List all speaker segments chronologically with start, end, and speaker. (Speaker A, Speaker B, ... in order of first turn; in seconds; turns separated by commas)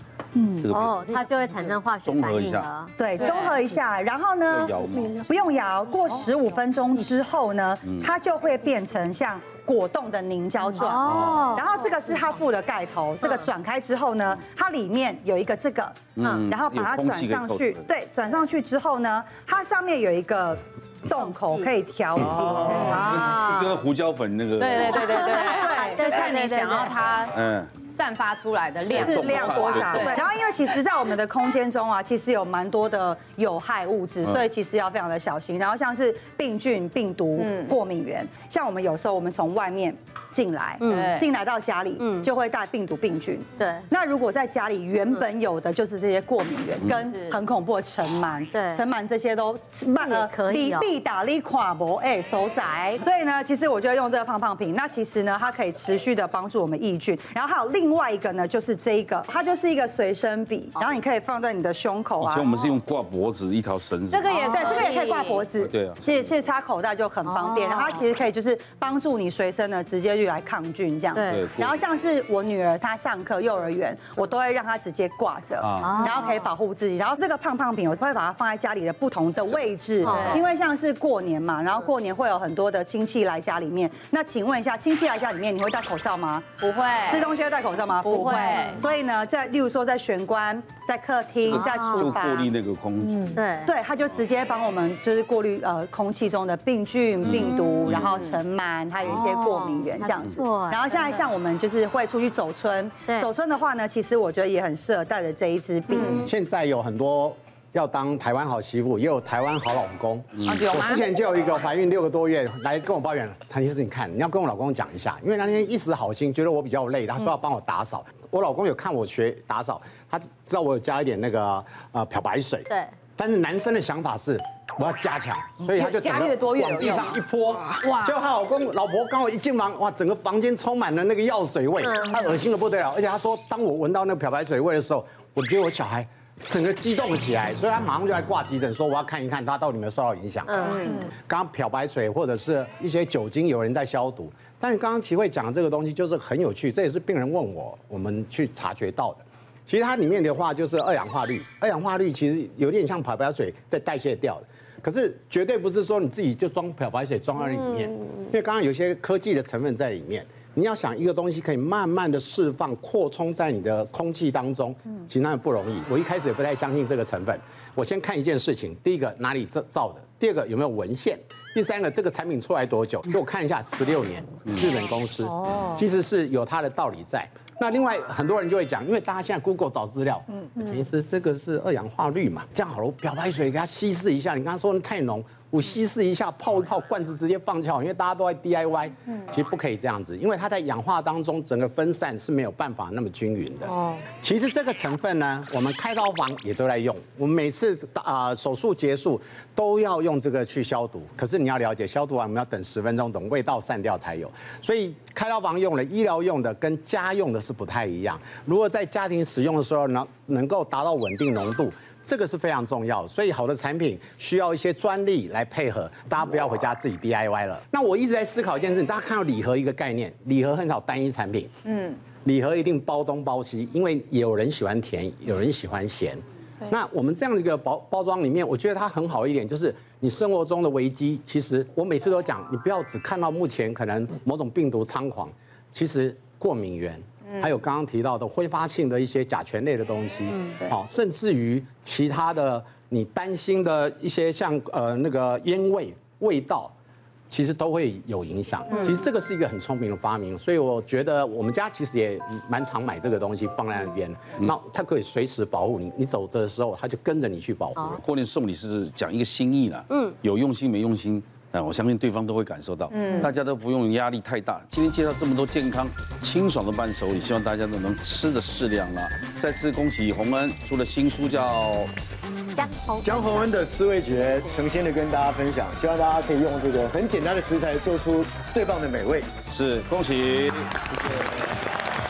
Speaker A: 0.3-0.6, Speaker B: 0.6-1.2, Speaker C: 0.7-3.0, Speaker B: 2.0-2.7, Speaker A: 3.0-23.0, Speaker D: 3.1-3.6, Speaker B: 4.5-5.2, Speaker C: 10.7-11.7, Speaker B: 11.0-11.4, Speaker C: 13.2-13.5, Speaker B: 16.1-17.9, Speaker C: 21.2-21.7, Speaker E: 22.3-23.0, Speaker B: 22.3-25.1, Speaker C: 22.7-23.7, Speaker D: 24.6-30.2, Speaker C: 24.9-27.0, Speaker A: 25.4-26.9, Speaker B: 27.3-27.7, Speaker B: 28.9-30.2, Speaker A: 28.9-62.5, Speaker D: 37.4-37.8, Speaker C: 40.8-41.2, Speaker D: 40.8-41.3, Speaker C: 42.0-42.3, Speaker C: 43.6-43.9, Speaker D: 47.0-47.4, Speaker C: 48.5-48.8, Speaker C: 50.0-50.9, Speaker B: 62.2-64.5, Speaker D: 64.1-65.5, Speaker A: 64.3-86.5, Speaker C: 64.4-64.8, Speaker B: 65.6-66.0, Speaker C: 67.2-68.0, Speaker C: 71.1-71.4, Speaker B: 71.3-71.8, Speaker B: 75.6-75.9, Speaker C: 75.8-76.5, Speaker C: 80.0-80.4, Speaker D: 80.1-80.5, Speaker D: 86.6-87.3, Speaker A: 87.0-92.5, Speaker D: 88.0-88.8, Speaker B: 91.5-93.4, Speaker C: 91.5-92.2, Speaker C: 93.3-93.7, Speaker A: 93.6-106.2, Speaker B: 97.2-98.2, Speaker C: 99.0-101.2, Speaker D: 105.9-106.3, Speaker F: 106.2-221.5, Speaker D: 110.4-111.0, Speaker C: 122.7-122.9, Speaker D: 125.6-127.2, Speaker D: 127.7-128.2, Speaker C: 131.8-132.2, Speaker C: 140.5-140.9, Speaker D: 140.8-141.1, Speaker D: 221.7-222.0, Speaker F: 222.2-246.7, Speaker F: 247.3-258.0, Speaker B: 258.0-271.9, Speaker C: 259.9-260.1, Speaker D: 262.9-263.3, Speaker C: 272.5-273.5, Speaker E: 273.0-279.3, Speaker B: 279.5-280.7